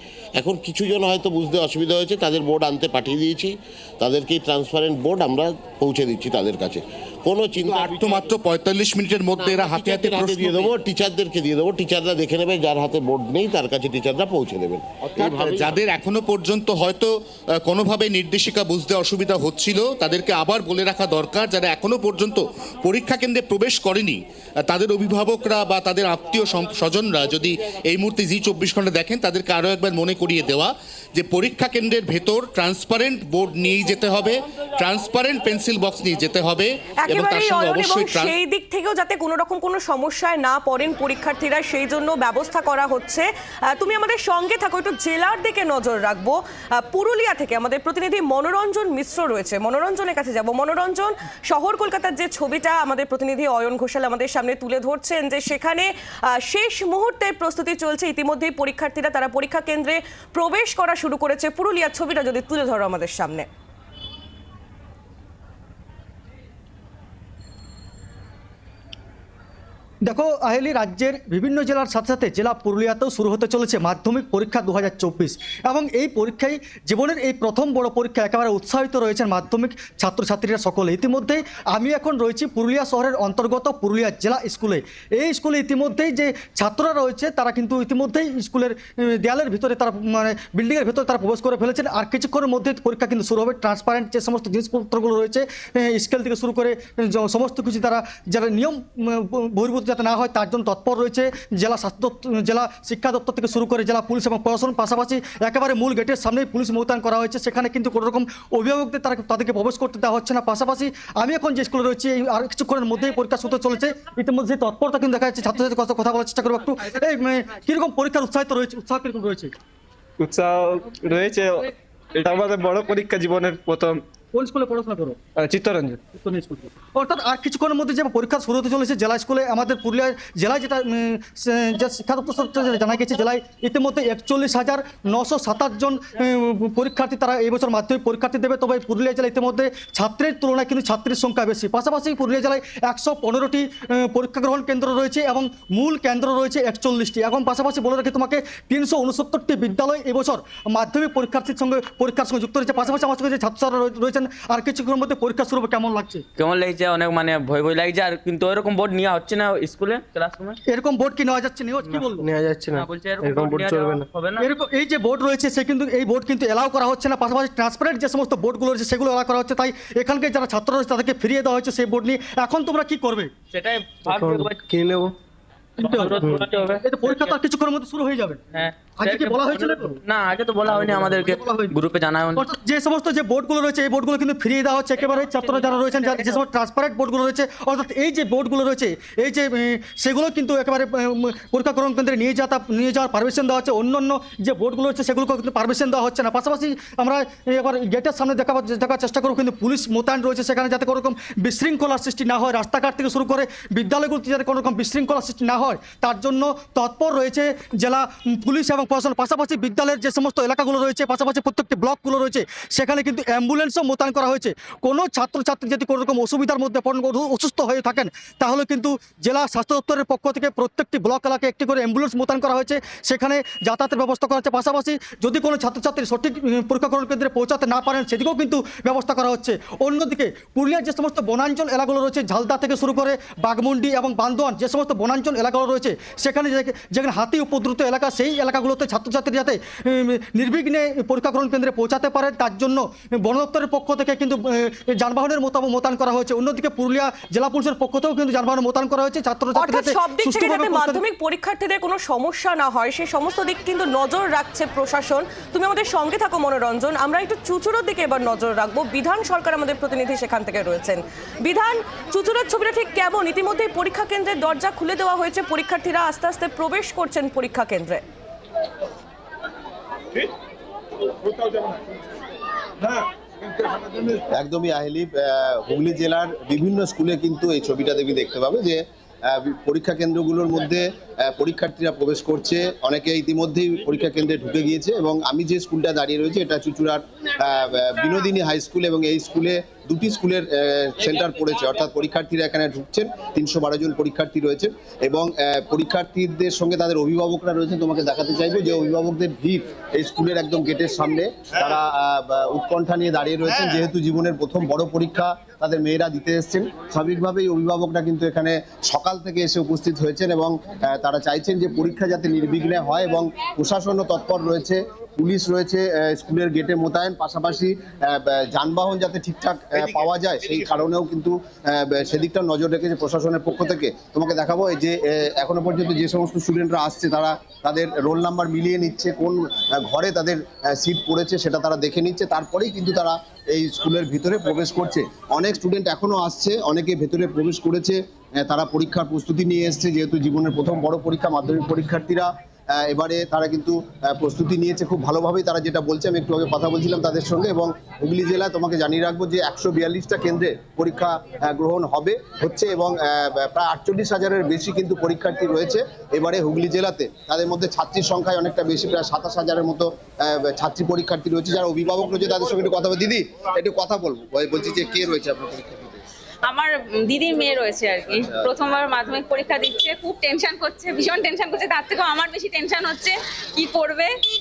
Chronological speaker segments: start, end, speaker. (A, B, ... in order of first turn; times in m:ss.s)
0:00.4-0:08.2 A
0:07.6-0:10.7 B
0:09.4-0:15.8 A
0:15.2-0:17.1 B
0:17.6-0:38.3 B
0:37.0-1:03.5 C
1:10.0-1:59.5 D
2:00.2-2:04.0 E
2:04.3-2:05.2 D
2:05.4-2:06.0 E
2:06.0-2:36.2 D
2:36.4-2:40.6 F
2:40.7-2:42.3 D
2:42.2-2:44.1 E
2:42.8-2:44.5 F
2:44.4-2:53.3 D
2:53.5-2:54.6 F
2:54.1-2:55.2 E
2:55.8-2:58.4 D
2:55.8-2:57.4 F
2:58.5-3:02.5 F
2:59.0-3:00.0 D
3:00.6-3:01.8 D
3:02.4-4:11.0 D
3:05.1-3:06.4 F
4:09.6-4:28.0 C
4:34.3-6:06.0 G
6:06.5-6:07.8 H
6:08.1-6:08.5 G
6:08.4-6:12.8 H